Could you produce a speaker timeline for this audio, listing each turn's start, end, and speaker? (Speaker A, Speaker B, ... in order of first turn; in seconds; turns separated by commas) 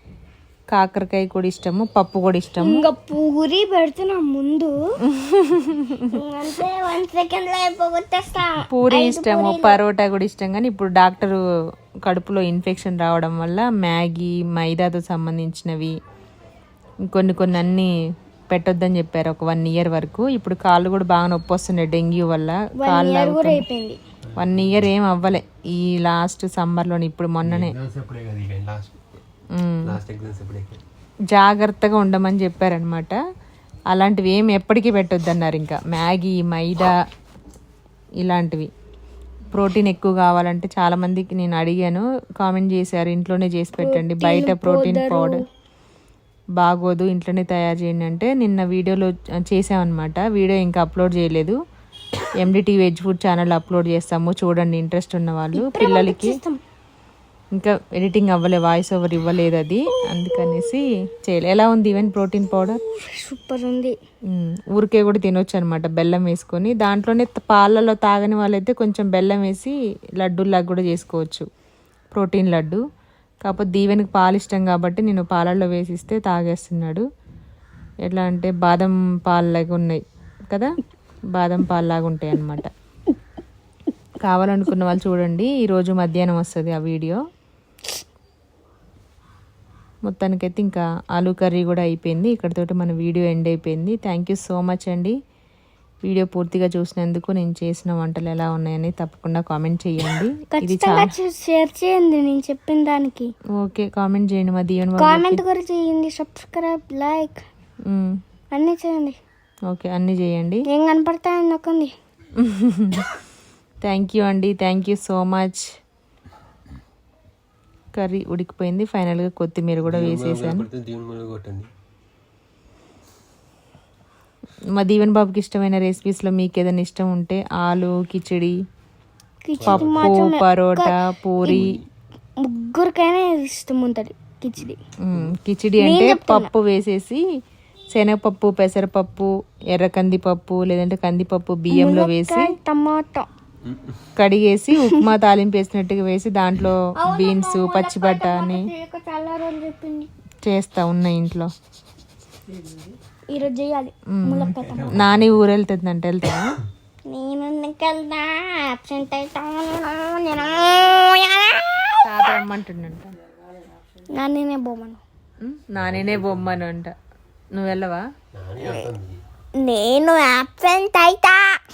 Speaker A: 0.7-2.9, Speaker B: 2.6-4.7, Speaker A: 5.0-6.2, Speaker B: 6.1-9.8, Speaker A: 8.7-11.4, Speaker A: 12.0-16.0, Speaker A: 17.0-17.9, Speaker A: 18.5-23.6, Speaker B: 22.8-24.0, Speaker C: 24.3-24.9, Speaker A: 24.4-27.7, Speaker C: 27.4-29.0, Speaker A: 29.5-30.0, Speaker C: 29.8-30.8, Speaker A: 31.3-33.2, Speaker A: 33.9-37.0, Speaker A: 38.2-38.7, Speaker A: 39.5-45.4, Speaker B: 43.8-45.4, Speaker A: 46.6-51.5, Speaker A: 52.4-56.4, Speaker B: 55.5-56.6, Speaker A: 57.5-62.8, Speaker B: 62.5-63.9, Speaker A: 64.3-71.5, Speaker A: 72.1-72.8, Speaker A: 73.4-77.0, Speaker A: 78.0-80.7, Speaker A: 81.3-82.7, Speaker A: 84.2-87.2, Speaker A: 90.0-95.2, Speaker A: 96.0-101.1, Speaker B: 100.5-103.3, Speaker A: 103.5-105.4, Speaker B: 105.0-107.4, Speaker A: 107.8-108.2, Speaker B: 108.5-109.2, Speaker A: 109.7-110.6, Speaker B: 110.7-111.9, Speaker A: 112.3-113.1, Speaker A: 113.8-115.7, Speaker A: 117.9-120.7, Speaker C: 119.8-121.7, Speaker A: 124.7-128.6, Speaker B: 129.4-131.8, Speaker C: 129.6-130.1, Speaker A: 129.6-131.7, Speaker B: 132.4-134.8, Speaker A: 135.0-137.2, Speaker B: 135.8-136.5, Speaker A: 137.9-142.5, Speaker B: 141.7-143.3, Speaker C: 143.7-143.9, Speaker A: 144.2-148.7, Speaker B: 147.0-150.1, Speaker A: 150.4-151.5, Speaker B: 153.3-154.9, Speaker A: 154.1-156.5, Speaker C: 154.5-155.4, Speaker B: 157.1-162.1, Speaker A: 162.0-163.2, Speaker B: 164.1-165.0, Speaker A: 165.4-166.9, Speaker C: 165.8-166.6, Speaker A: 167.5-168.1, Speaker C: 168.3-169.2, Speaker B: 168.6-168.9, Speaker B: 169.6-171.6